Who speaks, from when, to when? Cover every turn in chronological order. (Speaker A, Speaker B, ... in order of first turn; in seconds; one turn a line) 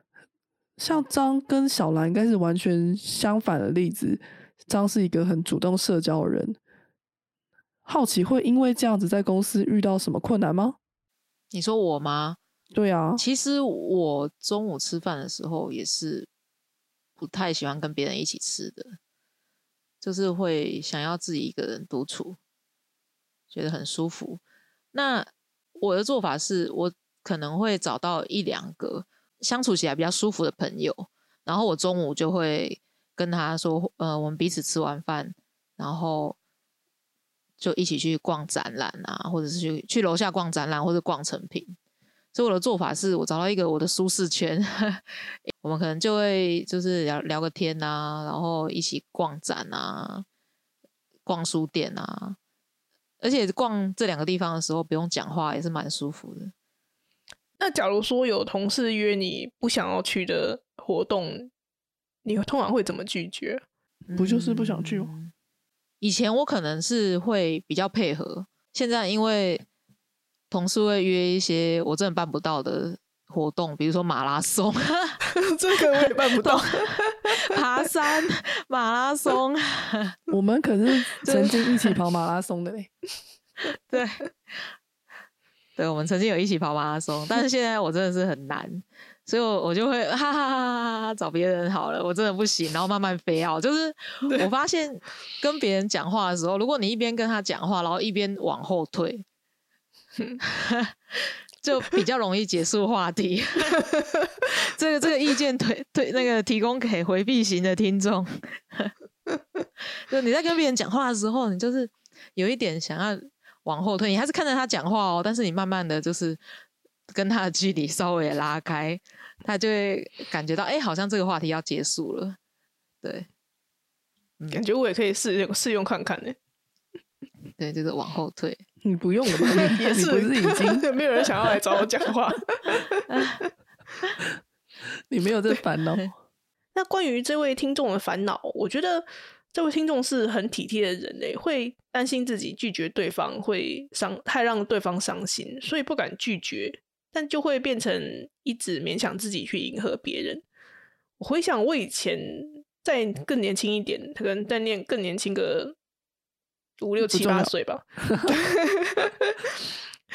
Speaker A: 0.8-6.6
Speaker A: 7.9-10.8
Speaker B: 11.5-12.4
Speaker A: 12.7-13.2
Speaker B: 13.2-16.3
Speaker B: 17.2-19.0
Speaker B: 20.0-22.4
Speaker B: 23.5-24.4
Speaker B: 24.9-36.4
Speaker B: 37.6-41.8
Speaker B: 42.3-45.0
Speaker B: 45.6-50.2
Speaker B: 51.2-52.4
Speaker B: 53.2-56.5
Speaker C: 57.6-61.5
Speaker C: 62.2-63.6
Speaker B: 64.1-65.3
Speaker A: 64.2-65.1
Speaker B: 66.0-69.7
Speaker B: 70.5-75.2
Speaker C: 75.4-77.3
Speaker B: 76.4-80.2
Speaker A: 80.3-82.9
Speaker B: 81.2-81.9
Speaker B: 83.7-84.7
Speaker B: 85.8-99.2
Speaker B: 100.4-103.9
Speaker B: 104.5-108.9
Speaker B: 110.1-116.4
Speaker B: 117.1-122.4
Speaker B: 123.0-123.3
Speaker C: 124.5-126.4
Speaker B: 127.6-128.6
Speaker A: 128.8-130.9
Speaker C: 129.5-133.1
Speaker B: 133.1-133.4
Speaker A: 135.1-136.1
Speaker C: 136.8-150.4
Speaker C: 151.2-155.8
Speaker C: 156.8-159.6
Speaker A: 157.0-158.3